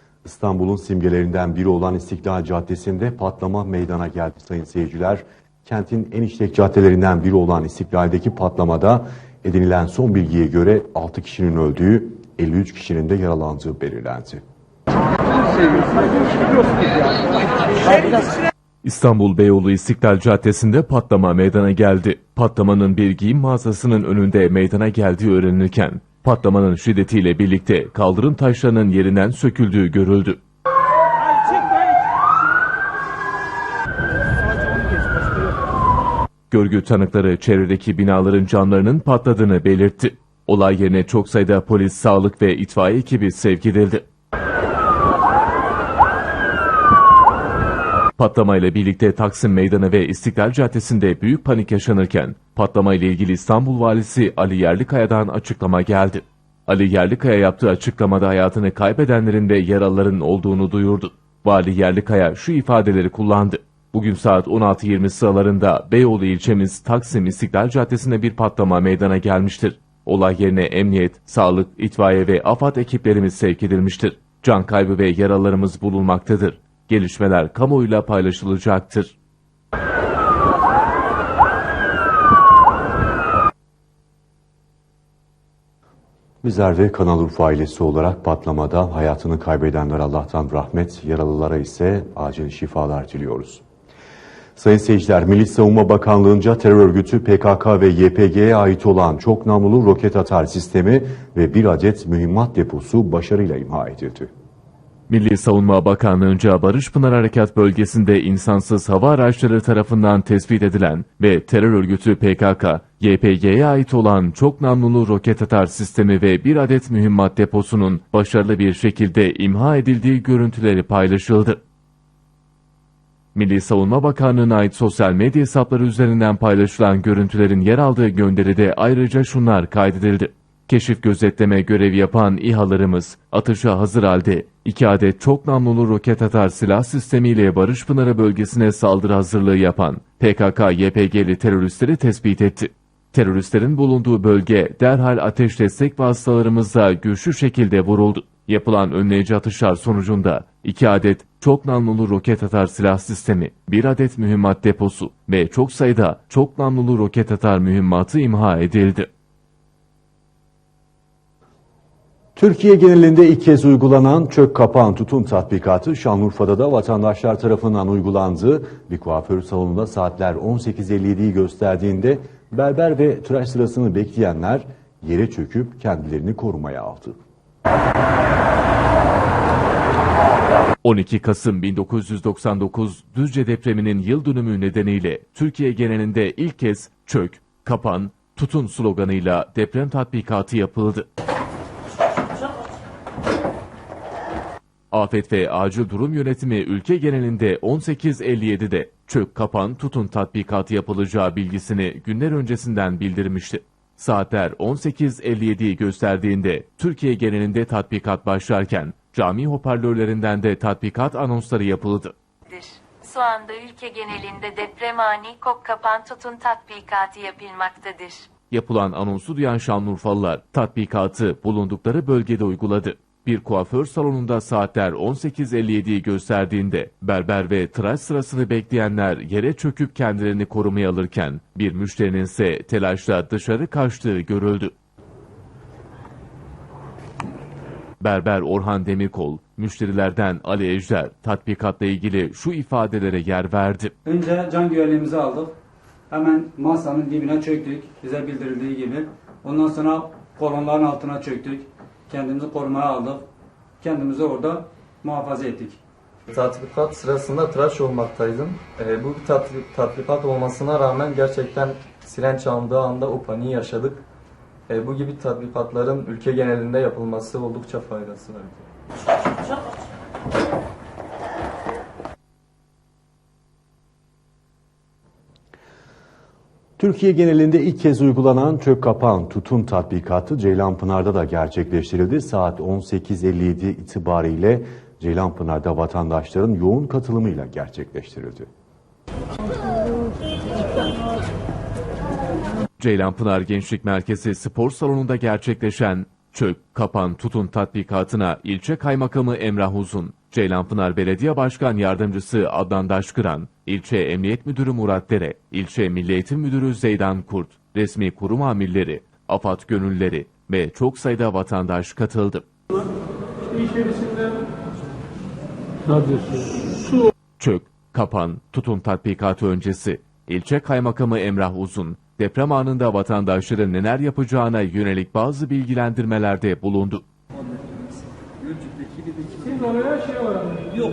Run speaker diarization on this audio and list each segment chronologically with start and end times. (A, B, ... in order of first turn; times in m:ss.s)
0:00.2-0:14.4 A
0:18.8-0:30.4 B
0:36.5-0:44.0 B
0:48.2-1:19.1 B
1:26.4-1:33.6 A
1:34.6-1:44.3 A
1:45.1-2:01.6 B
2:03.3-2:39.1 B
2:42.4-2:57.2 A
3:00.8-3:11.0 B
3:14.9-3:32.1 B
3:32.5-3:38.3 C
3:38.5-3:54.7 B
3:58.0-4:03.9 B
4:04.0-4:05.6 D
4:06.1-4:13.2 D
4:13.8-4:15.8 D
4:16.3-4:24.0 E
4:24.7-4:28.6 E
4:36.8-4:48.5 A
4:52.8-5:12.4 B
5:17.4-5:27.0 B
5:29.4-5:30.2 D